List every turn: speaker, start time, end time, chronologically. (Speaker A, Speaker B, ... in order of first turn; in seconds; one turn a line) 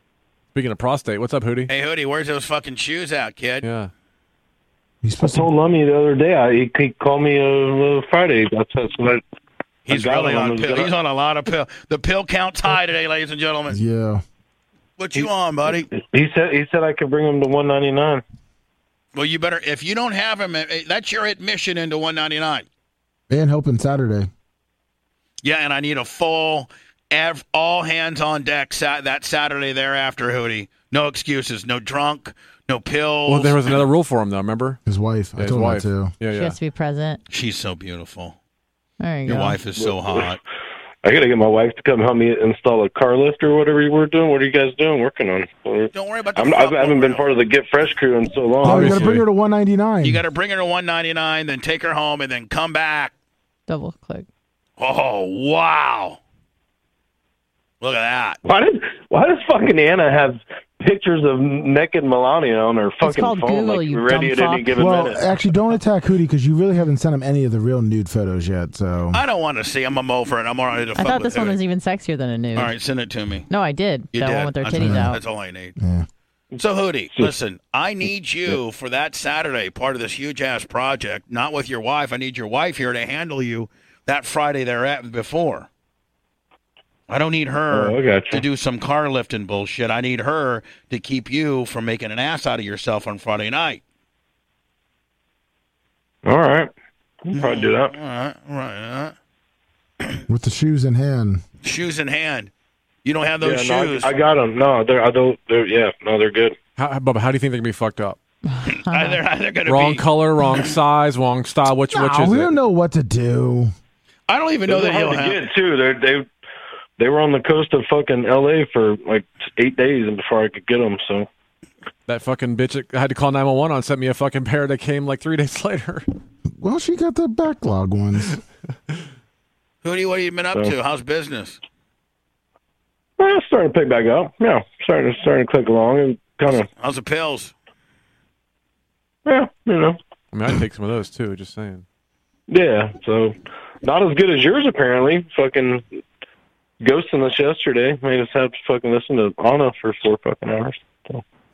Speaker A: 0.5-1.7
Speaker B: 1.7-3.7
Speaker A: 3.6-3.9
Speaker C: 5.0-5.5
Speaker D: 5.2-9.2
Speaker D: 9.9-10.9
Speaker B: 9.9-13.8
Speaker C: 13.7-14.2
Speaker B: 15.0-15.9
Speaker D: 15.9-18.2
Speaker B: 19.1-22.7
Speaker C: 23.3-24.3
Speaker B: 25.4-33.8
Speaker A: 33.3-34.8
Speaker C: 34.9-36.1
Speaker A: 35.4-36.6
Speaker E: 36.3-37.2
Speaker B: 37.3-38.4
Speaker E: 39.0-39.6
Speaker B: 39.3-40.4
Speaker D: 39.8-40.4
Speaker D: 41.0-49.2
Speaker B: 45.9-47.3
Speaker C: 48.6-50.2
Speaker B: 50.0-53.1
Speaker E: 53.7-54.3
Speaker B: 54.8-56.2
Speaker B: 57.8-58.4
Speaker D: 58.4-65.2
Speaker E: 63.0-64.8
Speaker C: 64.8-69.2
Speaker B: 69.1-71.6
Speaker E: 71.0-72.7
Speaker B: 72.5-73.5
Speaker E: 73.5-75.2
Speaker B: 74.1-75.7
Speaker C: 74.8-75.2
Speaker C: 75.8-76.1
Speaker B: 76.6-85.7
Speaker B: 87.1-93.8
Speaker D: 87.7-88.4
Speaker D: 96.2-96.7
Speaker D: 97.2-97.9
Speaker B: 97.3-99.2
Speaker C: 100.3-101.4
Speaker B: 101.6-102.5
Speaker B: 103.0-104.1
Speaker D: 103.4-106.6
Speaker A: 106.8-108.2
Speaker E: 108.5-109.2
Speaker B: 108.7-110.1
Speaker A: 109.7-112.5
Speaker C: 111.9-113.7
Speaker B: 114.3-115.5
Speaker D: 114.7-116.3
Speaker D: 117.0-121.3
Speaker A: 122.1-126.0
Speaker C: 126.6-128.4
Speaker B: 129.8-131.6
Speaker D: 133.2-136.7
Speaker B: 136.7-137.5
Speaker D: 139.2-140.0
Speaker A: 140.3-141.8
Speaker D: 142.5-145.8
Speaker D: 146.8-151.2